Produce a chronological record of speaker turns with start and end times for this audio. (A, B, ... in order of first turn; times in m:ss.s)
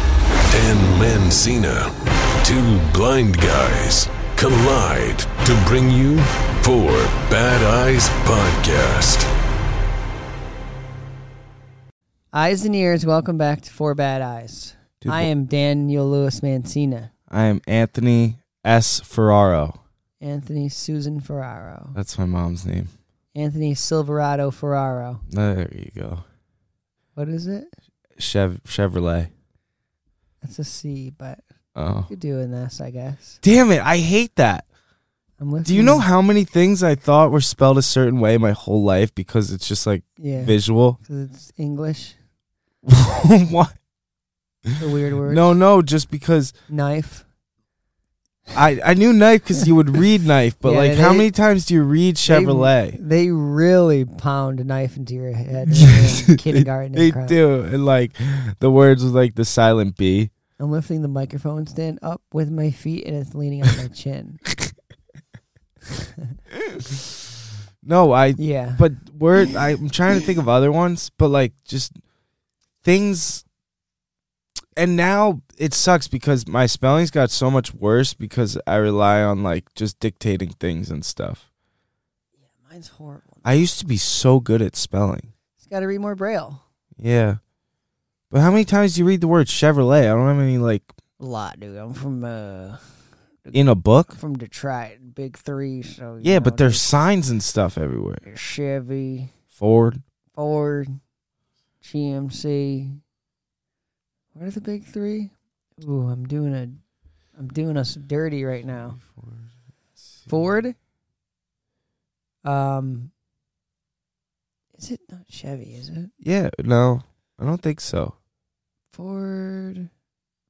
0:00.5-0:09.3 A
0:12.3-0:17.1 B
0:15.0-0:15.3 C
0:17.3-0:19.8 C
0:20.2-0:22.0 B
0:21.9-0:22.9 C
0:23.3-0:25.2 B
0:25.3-0:26.2 C
0:27.1-0:27.7 B
0:28.2-0:29.3 C
0:30.4-0:31.4 B
0:31.8-0:32.1 C
0:32.1-0:33.4 B
0:33.4-0:34.6 C
0:35.4-0:36.0 B
0:35.6-0:41.0 C
0:40.2-0:42.2 B
0:42.8-0:43.7 C
0:44.7-0:46.5 C
0:44.8-0:45.5 B
0:46.7-0:47.2 B
0:48.5-0:53.0 C
0:50.6-0:51.3 B
0:52.2-0:57.4 B
0:55.7-1:00.3 C
1:00.6-1:04.4 B
1:05.9-1:06.4 B
1:06.6-1:07.0 C
1:07.8-1:12.0 C
1:08.4-1:08.9 B
1:12.8-1:13.4 C
1:14.8-1:21.4 C
1:22.4-1:23.6 B
1:23.4-1:25.3 C
1:25.6-1:26.6 B
1:27.0-1:27.4 C
1:28.3-1:30.9 C
1:31.2-1:32.8 B
1:33.4-1:36.9 B
1:33.5-1:34.1 C
1:36.2-1:38.2 C
1:38.2-1:39.3 B
1:39.6-1:40.0 C
1:40.3-1:41.0 B
1:41.8-1:43.0 B
1:44.3-1:46.8 B
1:47.4-1:49.0 B
1:49.0-1:49.5 C
1:50.3-1:50.8 B
1:52.4-1:53.1 B
1:54.7-1:56.1 B
1:56.2-1:58.1 C
1:58.9-1:59.9 B